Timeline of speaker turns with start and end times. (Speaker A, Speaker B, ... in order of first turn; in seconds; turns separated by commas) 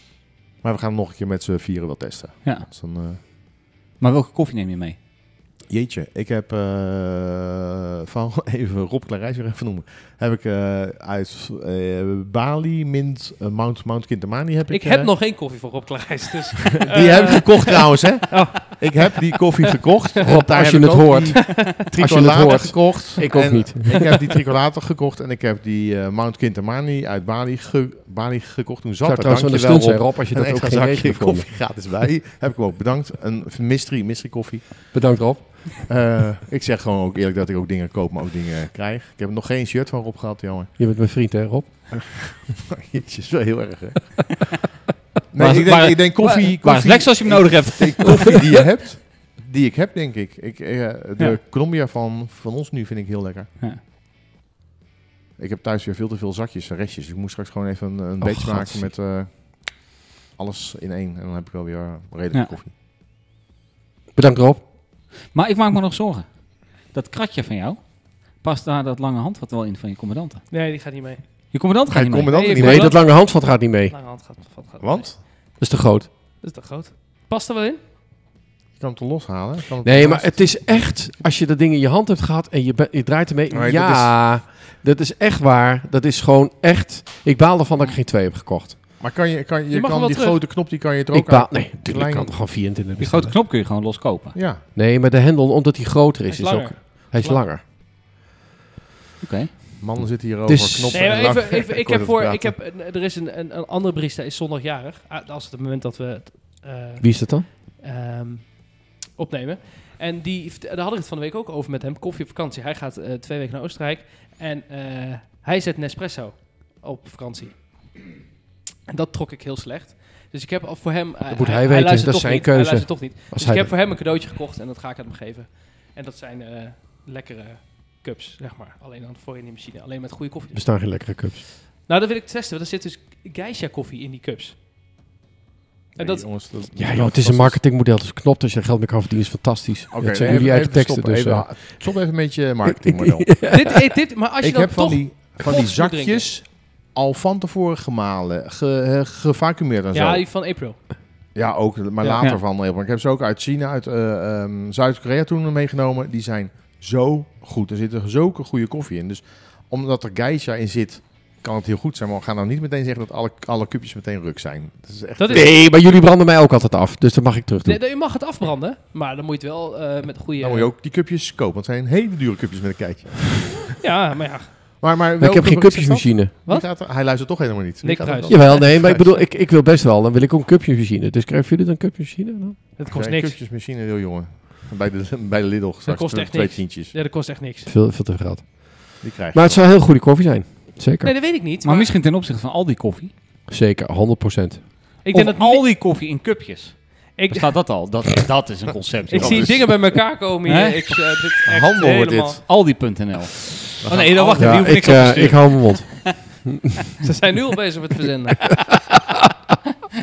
Speaker A: 0.6-3.2, Speaker B: 4.0-5.0, Speaker A: 5.7-15.1, Speaker C: 14.7-19.3, Speaker A: 16.8-35.1, Speaker D: 20.2-24.2, Speaker D: 29.0-31.8, Speaker D: 34.9-35.9, Speaker A: 35.9-40.8, Speaker D: 40.8-42.1, Speaker A: 41.9-44.5, Speaker A: 45.3-53.5, Speaker B: 45.4-48.5, Speaker A: 55.4-62.7, Speaker D: 58.2-58.9, Speaker D: 64.2-64.6, Speaker B: 65.3-66.3, Speaker B: 66.8-70.5, Speaker C: 70.5-71.2, Speaker B: 71.5-72.3, Speaker A: 71.9-73.0, Speaker C: 72.3-75.2, Speaker D: 72.5-73.9, Speaker A: 74.8-75.2, Speaker D: 75.6-76.1, Speaker C: 76.4-77.8, Speaker A: 78.8-80.9, Speaker D: 79.8-88.8, Speaker A: 83.5-84.1, Speaker A: 89.0-92.5, Speaker C: 89.7-90.4, Speaker D: 91.1-93.4, Speaker B: 93.0-94.3, Speaker A: 94.3-94.6, Speaker D: 94.8-97.6, Speaker C: 96.3-97.5, Speaker B: 99.2-99.5, Speaker A: 99.8-102.5, Speaker D: 100.5-101.3, Speaker C: 100.9-118.0, Speaker D: 107.0-107.5, Speaker C: 118.9-130.7, Speaker D: 121.3-123.7, Speaker D: 130.5-131.5, Speaker C: 131.8-134.6, Speaker A: 135.9-137.6, Speaker C: 136.0-136.3, Speaker D: 136.8-141.9, Speaker A: 139.9-143.5, Speaker D: 142.8-143.8, Speaker C: 143.4-146.4, Speaker A: 144.4-150.2, Speaker C: 149.9-150.8, Speaker A: 151.3-165.6, Speaker C: 152.0-152.4, Speaker C: 165.2-165.5, Speaker D: 165.3-167.8, Speaker C: 167.7-170.7, Speaker A: 170.4-173.8, Speaker C: 173.8-174.7, Speaker A: 174.8-179.2, Speaker D: 175.2-176.3, Speaker C: 176.5-176.8, Speaker C: 177.8-178.6, Speaker D: 178.3-182.6, Speaker C: 182.8-183.4, Speaker A: 182.9-186.9, Speaker C: 185.9-187.7, Speaker D: 187.7-191.1, Speaker A: 189.0-189.6, Speaker C: 191.0-191.9, Speaker B: 191.6-193.1, Speaker D: 193.5-194.7, Speaker C: 195.0-195.7, Speaker B: 195.1-199.8, Speaker C: 197.2-197.5, Speaker C: 199.1-202.4, Speaker A: 199.1-199.7, Speaker B: 200.5-200.9, Speaker A: 201.4-202.4, Speaker B: 202.4-204.4, Speaker A: 203.8-204.7, Speaker C: 203.9-205.7, Speaker D: 204.4-206.5, Speaker B: 205.0-205.4, Speaker C: 207.0-208.7